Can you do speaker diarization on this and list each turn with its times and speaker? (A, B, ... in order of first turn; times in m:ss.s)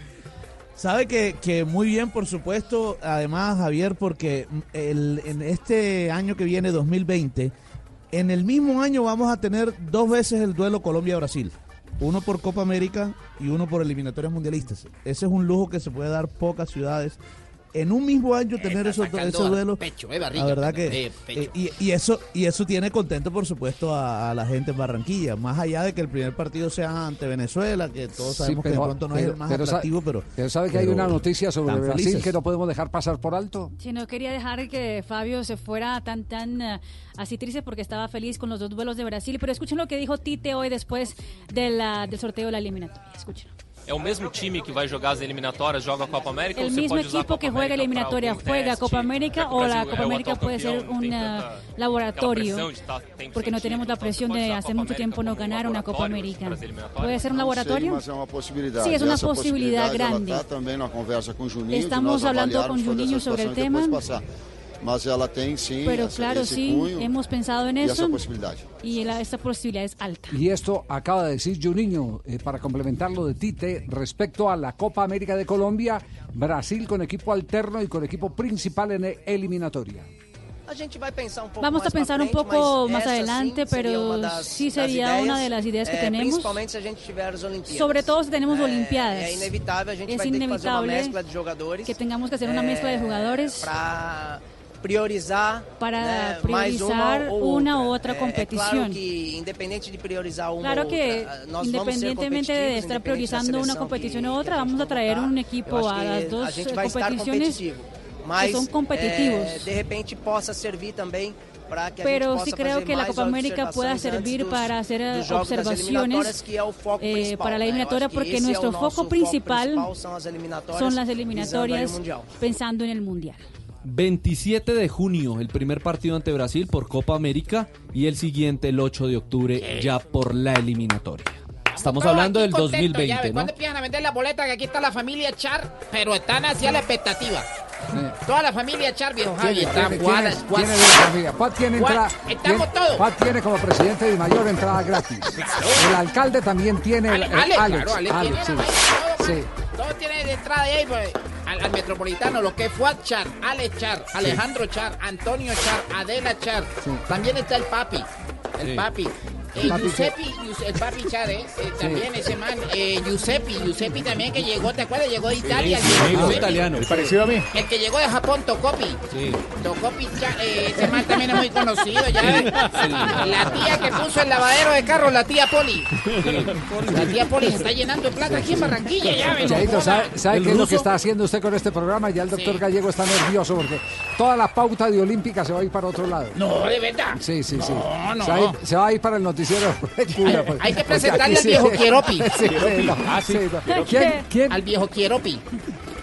0:00.8-0:07.5 A
0:08.1-0:17.2 A
0:17.7-0:32.3 A
0:18.6-0:21.5 B
0:28.2-0:33.7 C
0:33.8-0:43.5 D
0:43.9-0:51.6 E
0:46.6-0:52.7 D
0:52.1-0:57.2 E
0:53.3-0:58.0 D
0:57.2-1:04.2 F
0:58.8-1:00.4 D
1:01.7-1:04.0 D
1:04.8-1:07.1 F
1:05.8-1:08.2 D
1:07.8-1:08.6 F
1:08.8-1:10.4 D
1:10.3-1:20.1 C
1:20.7-2:02.3 G
1:21.6-1:26.6 D
1:27.7-1:31.2 D
1:31.8-1:33.7 D
1:35.8-1:39.0 D
1:40.6-1:47.6 D
1:48.4-1:49.7 D
1:52.0-1:56.4 D
1:57.0-1:59.9 D
2:00.7-2:03.4 D
2:03.8-2:13.5 H
2:11.8-2:17.5 B
2:18.2-2:21.0 B
2:19.4-2:29.5 C
2:21.7-2:23.0 B
2:25.3-2:25.9 B
2:27.1-2:38.1 B
2:38.6-2:46.6 B
2:39.6-2:40.1 C
2:41.8-2:42.1 C
2:45.4-2:47.4 I
2:45.6-2:46.9 H
2:47.5-2:55.9 B
2:52.2-2:53.5 H
2:56.2-2:56.5 H
2:56.9-3:00.2 B
2:59.4-3:06.4 C
3:00.3-3:00.8 H
3:02.3-3:02.6 B
3:06.3-3:08.6 B
3:07.2-3:14.6 C
3:10.3-3:12.4 B
3:12.4-3:13.4 I
3:13.6-3:14.2 D
3:14.5-3:15.4 B